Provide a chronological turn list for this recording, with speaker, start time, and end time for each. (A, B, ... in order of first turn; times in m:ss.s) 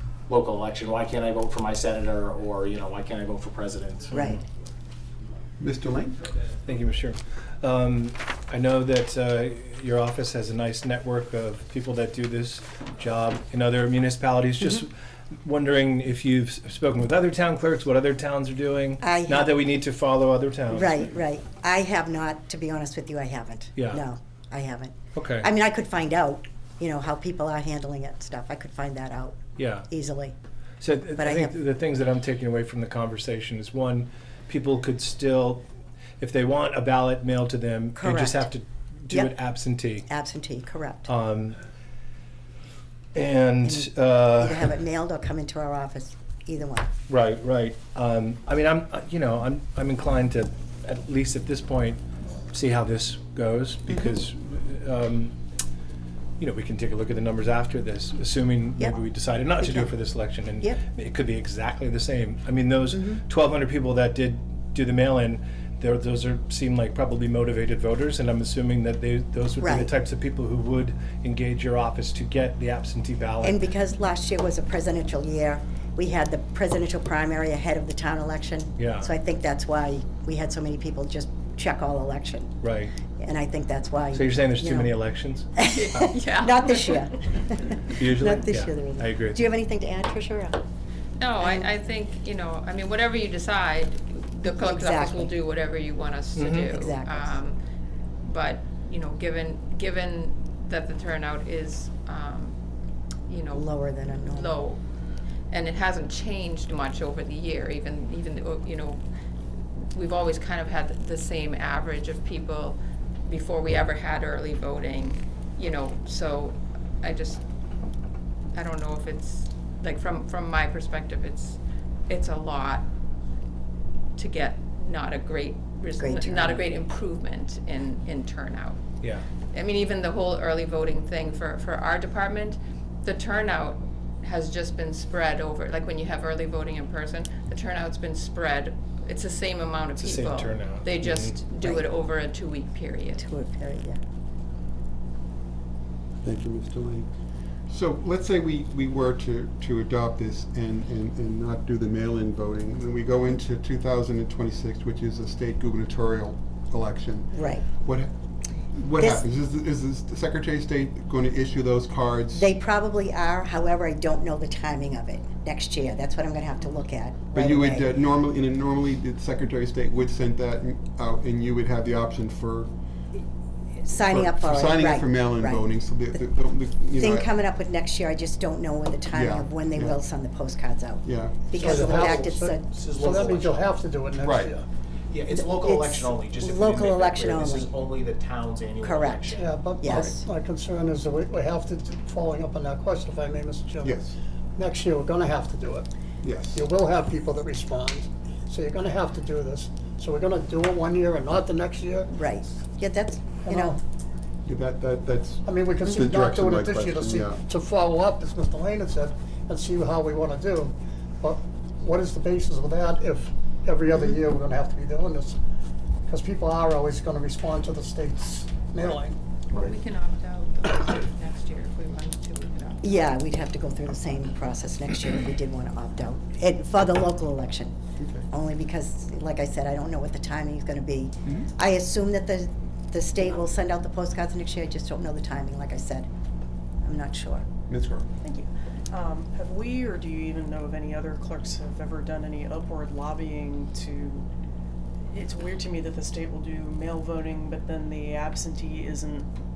0:00.3-0:04.2 A
0:04.1-0:04.4 B
0:05.6-0:06.2 C
0:06.6-0:21.0 D
0:19.0-0:19.6 B
0:20.7-0:30.4 B
0:23.8-0:24.0 D
0:25.2-0:25.5 D
0:29.6-0:29.9 D
0:30.8-0:35.6 D
0:31.2-0:31.6 B
0:36.2-0:40.1 D
0:38.0-0:38.5 B
0:39.1-0:39.3 B
0:40.1-0:41.1 B
0:41.1-0:41.6 D
0:43.2-0:44.6 D
0:43.6-0:46.9 B
0:47.1-0:55.4 D
0:56.4-1:13.6 D
0:59.6-0:59.9 B
1:02.9-1:03.2 B
1:09.6-1:09.9 B
1:13.4-1:22.6 B
1:18.8-1:19.1 D
1:22.6-1:22.9 D
1:23.1-1:25.0 B
1:24.1-1:25.5 D
1:25.6-1:30.6 B
1:25.6-1:27.1 E
1:28.0-1:29.4 D
1:31.2-1:37.6 E
1:31.4-1:31.7 B
1:34.4-1:35.3 B
1:36.4-1:36.7 D
1:36.7-1:37.4 B
1:38.2-1:42.6 E
1:43.3-1:44.8 E
1:43.5-1:44.6 B
1:45.5-1:49.0 E
1:49.9-1:57.4 E
1:58.6-2:02.9 E
2:04.2-2:08.8 E
2:06.0-2:06.7 B
2:09.5-2:23.2 E
2:20.0-2:21.4 D
2:23.2-2:24.0 B
2:26.2-2:27.1 C
2:27.7-2:38.1 C
2:37.3-2:37.7 B
2:38.7-2:42.5 C
2:39.0-2:39.2 B
2:42.3-2:47.9 B
2:47.3-2:52.7 C
2:53.8-2:55.7 B
2:54.0-2:57.3 C
2:57.0-3:02.7 B
2:59.1-3:00.0 C
3:01.0-3:01.5 C
3:01.5-3:04.7 F
3:01.6-3:03.7 A
3:04.2-3:04.6 C
3:05.1-3:09.5 A
3:05.4-3:07.7 B
3:08.8-3:10.2 B
3:09.3-3:14.0 F
3:09.9-3:10.1 C
3:13.8-3:14.2 C
3:14.6-3:15.9 F
3:16.2-3:16.6 C
3:16.5-3:22.1 F
3:22.1-3:23.8 B
3:23.4-3:23.8 F
3:24.4-3:27.4 C
3:25.4-3:35.4 F
3:25.8-3:26.1 B
3:36.1-3:39.7 F
3:39.5-3:42.9 E
3:42.8-3:47.8 B
3:48.0-3:48.2 C
3:48.3-3:56.1 B
3:56.8-3:57.5 B
3:57.7-3:58.1 C
3:58.2-4:04.3 G
4:05.1-4:09.3 G